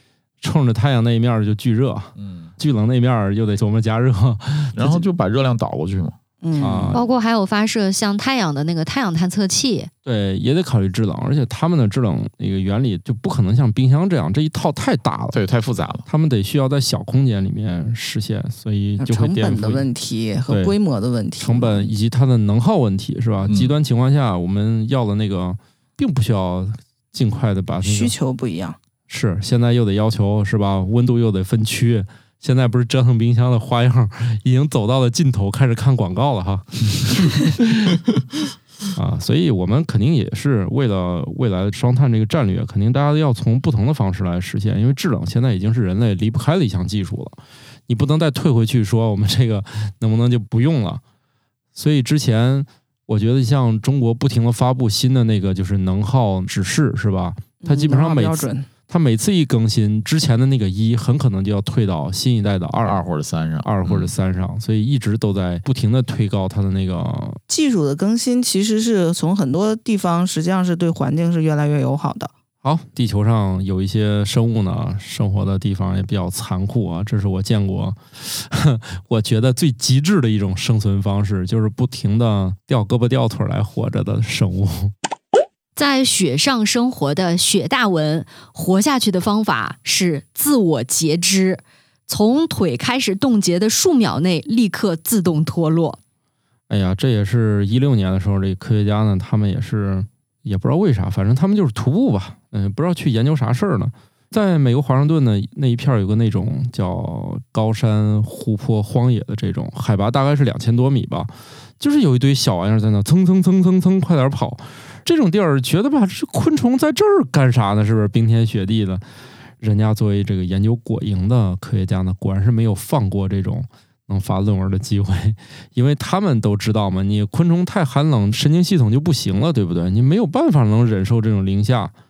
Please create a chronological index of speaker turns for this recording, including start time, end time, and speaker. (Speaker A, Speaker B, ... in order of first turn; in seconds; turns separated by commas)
Speaker A: 0.4-5.0, Speaker B: 2.2-2.5, Speaker B: 4.7-6.2, Speaker C: 6.4-7.0, Speaker A: 6.6-7.0, Speaker D: 6.9-9.9, Speaker A: 10.0-15.4, Speaker B: 15.3-16.1, Speaker A: 16.1-19.9, Speaker C: 19.0-21.9, Speaker A: 20.5-20.7, Speaker A: 21.4-28.1, Speaker B: 23.5-23.7, Speaker C: 27.8-28.8, Speaker A: 29.1-38.0, Speaker A: 38.9-47.4, Speaker A: 47.9-51.0, Speaker A: 51.7-63.0, Speaker C: 57.6-58.7, Speaker B: 62.8-64.1, Speaker A: 63.6-67.4, Speaker C: 67.5-72.3, Speaker A: 72.6-84.9, Speaker D: 85.8-96.0, Speaker A: 96.7-119.0, Speaker A: 119.6-131.9